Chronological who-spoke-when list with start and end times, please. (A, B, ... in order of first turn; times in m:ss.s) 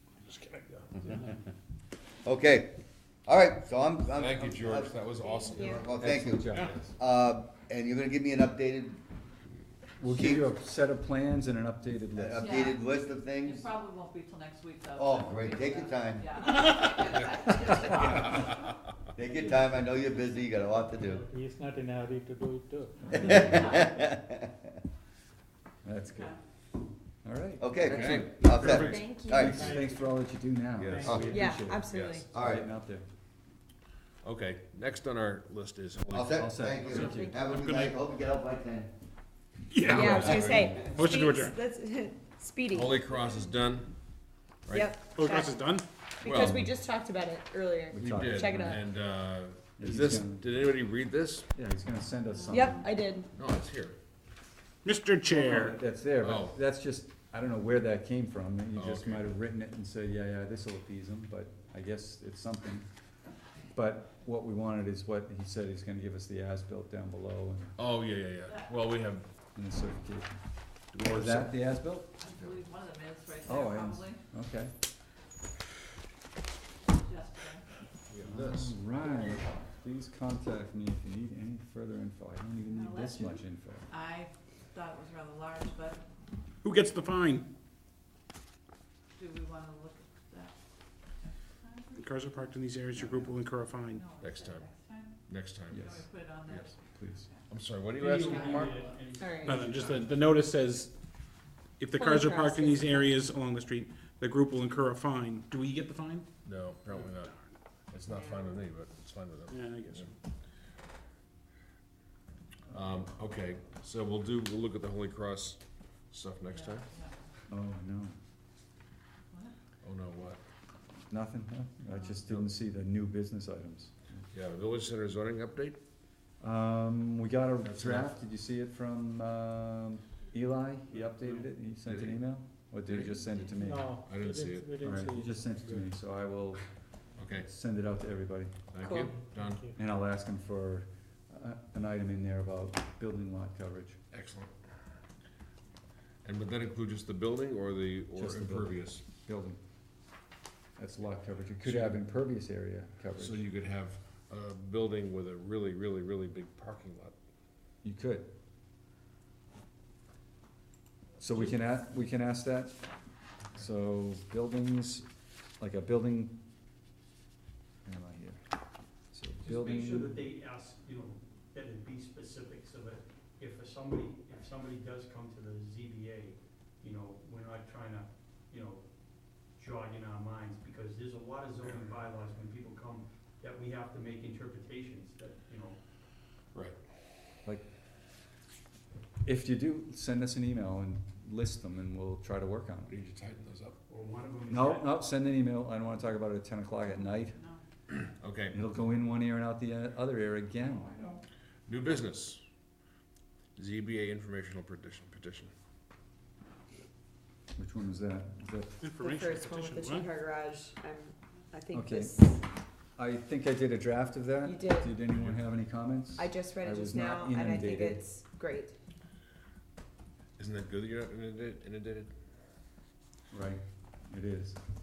0:00.2-0:01.4 A
0:02.2-0:02.7 B
0:03.3-0:05.0 B
0:04.1-0:05.9 C
0:05.2-0:05.8 D
0:05.6-0:09.0 B
0:06.0-0:06.9 E
0:10.0-0:12.7 E
0:10.1-0:10.5 B
0:12.2-0:13.7 B
0:12.4-0:18.5 F
0:15.0-0:16.3 B
0:18.0-0:18.5 C
0:19.2-0:21.2 B
0:21.3-0:23.0 G
0:23.0-0:23.7 E
0:23.1-0:24.5 B
0:23.2-0:24.0 F
0:25.8-0:26.3 E
0:27.2-0:28.8 E
0:27.6-0:29.8 B
0:27.9-0:28.4 C
0:28.6-0:29.8 A
0:28.8-0:30.0 D
0:29.4-0:33.1 E
0:30.8-0:31.1 C
0:30.9-0:31.2 A
0:31.0-0:31.4 B
0:31.3-0:32.3 D
0:31.9-0:32.3 C
0:32.3-0:32.7 B
0:34.2-0:36.4 C
0:36.1-0:38.9 B
0:36.3-0:37.6 E
0:37.0-0:37.6 D
0:39.7-0:41.6 A
0:39.9-0:43.1 D
0:40.0-0:40.6 E
0:40.2-0:40.8 C
0:42.7-0:43.9 C
0:44.7-0:45.0 C
0:44.7-0:45.5 D
0:45.1-0:45.8 A
0:46.2-0:48.9 D
0:46.2-0:46.7 C
0:47.9-0:48.8 E
0:48.0-0:51.5 C
0:49.8-0:50.5 E
0:51.6-0:52.9 E
0:52.3-0:52.7 F
0:52.5-0:53.3 D
0:53.4-0:54.0 C
0:54.8-0:55.8 A
0:55.3-1:02.9 E
0:56.2-0:56.6 C
0:58.8-0:59.3 C
1:03.7-1:07.8 E
1:07.8-1:09.3 C
1:09.6-1:10.4 E
1:10.9-1:11.7 C
1:11.0-1:12.1 E
1:12.2-1:14.2 F
1:12.3-1:12.6 C
1:13.4-1:14.7 E
1:16.9-1:17.6 F
1:18.1-1:18.8 C
1:18.2-1:23.9 E
1:22.7-1:26.0 F
1:26.6-1:27.4 A
1:29.2-1:30.6 F
1:31.1-1:32.5 F
1:32.0-1:34.0 A
1:33.0-1:33.3 E
1:33.9-1:35.2 F
1:34.2-1:34.7 C
1:35.3-1:35.9 C
1:35.7-1:36.1 E
1:35.8-1:37.5 F
1:36.5-1:36.8 C
1:36.9-1:37.3 E
1:37.5-1:38.8 C
1:38.0-1:40.2 H
1:38.2-1:39.0 F
1:39.2-1:39.5 D
1:39.4-1:40.9 A
1:41.8-1:46.3 A
1:42.0-1:43.1 D
1:46.4-1:47.4 C
1:47.9-1:50.1 C
1:48.1-1:48.6 D
1:49.5-1:50.2 A
1:52.7-1:56.9 C
1:56.5-1:57.2 F
1:57.5-1:58.2 E
1:59.8-2:00.4 C
2:01.1-2:04.2 E
2:04.3-2:05.8 C
2:06.4-2:13.9 E
2:07.6-2:08.2 C
2:11.8-2:12.3 C
2:12.9-2:13.2 C
2:13.6-2:15.3 G
2:14.0-2:15.1 C
2:14.2-2:15.8 A
2:14.8-2:16.6 E
2:17.2-2:17.5 C
2:17.4-2:18.7 E
2:18.7-2:19.7 C
2:18.8-2:19.2 D
2:19.4-2:19.7 A
2:19.8-2:24.0 E
2:24.1-2:24.5 C
2:26.2-2:29.0 C
2:28.2-2:29.6 E
2:30.8-2:33.4 E
2:31.6-2:32.0 C
2:33.2-2:37.2 C
2:37.8-2:38.3 E
2:41.2-2:42.8 E
2:43.5-2:45.1 E
2:45.6-2:46.4 E
2:47.8-2:48.4 E
2:49.1-2:50.2 E
2:49.4-2:58.8 H
2:59.6-3:05.8 H
3:09.2-3:13.0 E
3:12.9-3:13.8 C
3:13.9-3:14.9 H
3:14.5-3:17.4 E
3:16.9-3:17.6 F
3:18.2-3:18.6 C
3:18.5-3:21.0 E
3:21.7-3:22.4 C
3:23.6-3:25.5 C
3:27.6-3:28.7 E
3:28.8-3:30.1 A
3:29.0-3:32.4 D
3:31.7-3:32.2 E
3:33.0-3:38.0 E
3:34.4-3:35.0 D
3:36.2-3:38.8 D
3:40.4-3:42.1 C
3:43.3-3:44.6 E